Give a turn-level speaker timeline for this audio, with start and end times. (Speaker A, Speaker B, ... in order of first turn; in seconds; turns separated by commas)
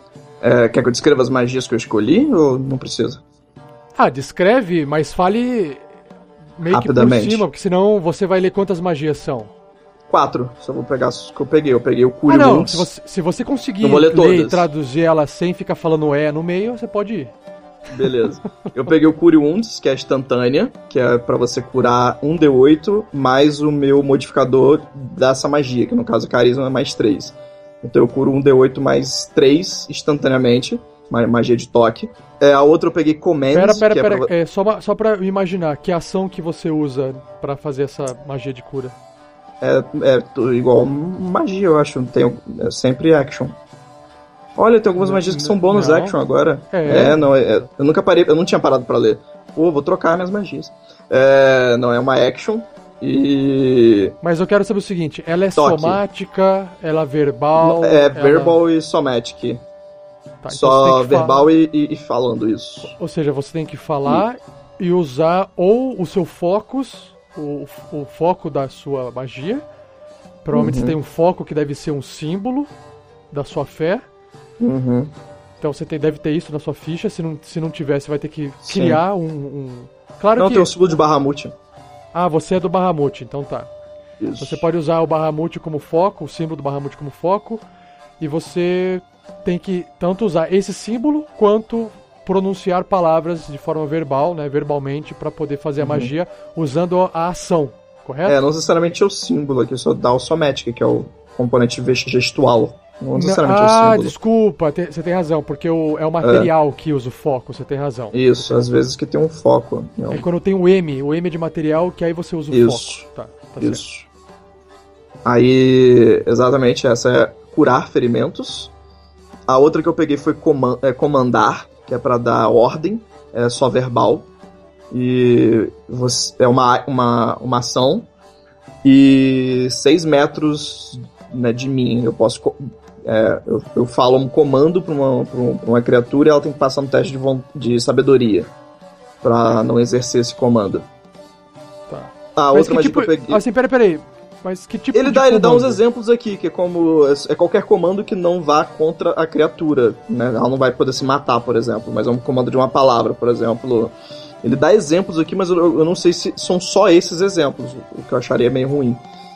Speaker A: 0.4-3.2, Speaker B: 4.0-5.9, Speaker B: 6.6-9.5, Speaker A: 6.7-7.5, Speaker A: 10.1-12.9, Speaker B: 12.3-17.3, Speaker A: 13.8-14.7, Speaker A: 17.9-34.3, Speaker B: 33.5-39.0, Speaker A: 39.6-43.5, Speaker A: 44.6-54.1, Speaker B: 45.0-46.2, Speaker B: 46.7-47.3, Speaker B: 54.2-58.6, Speaker A: 55.5-56.0, Speaker A: 57.6-59.6, Speaker B: 60.4-61.5, Speaker A: 60.5-62.9, Speaker B: 62.8-69.6, Speaker B: 70.4-72.7, Speaker A: 70.5-71.0, Speaker B: 73.3-74.0, Speaker A: 74.6-75.1, Speaker B: 75.6-80.7, Speaker A: 78.6-79.0, Speaker A: 80.4-81.5, Speaker B: 82.1-83.7, Speaker A: 84.2-84.6, Speaker B: 84.4-87.6, Speaker B: 88.2-98.4, Speaker A: 95.8-96.1, Speaker A: 98.2-104.1, Speaker B: 103.1-108.7, Speaker A: 106.2-106.5, Speaker A: 108.1-110.2, Speaker B: 110.1-113.8, Speaker A: 112.5-113.0, Speaker A: 113.6-114.1, Speaker A: 115.2-118.7, Speaker A: 119.5-124.3, Speaker A: 124.9-128.1, Speaker A: 128.8-138.5, Speaker A: 139.2-140.8, Speaker B: 141.9-145.8, Speaker A: 142.3-143.4, Speaker A: 144.9-159.0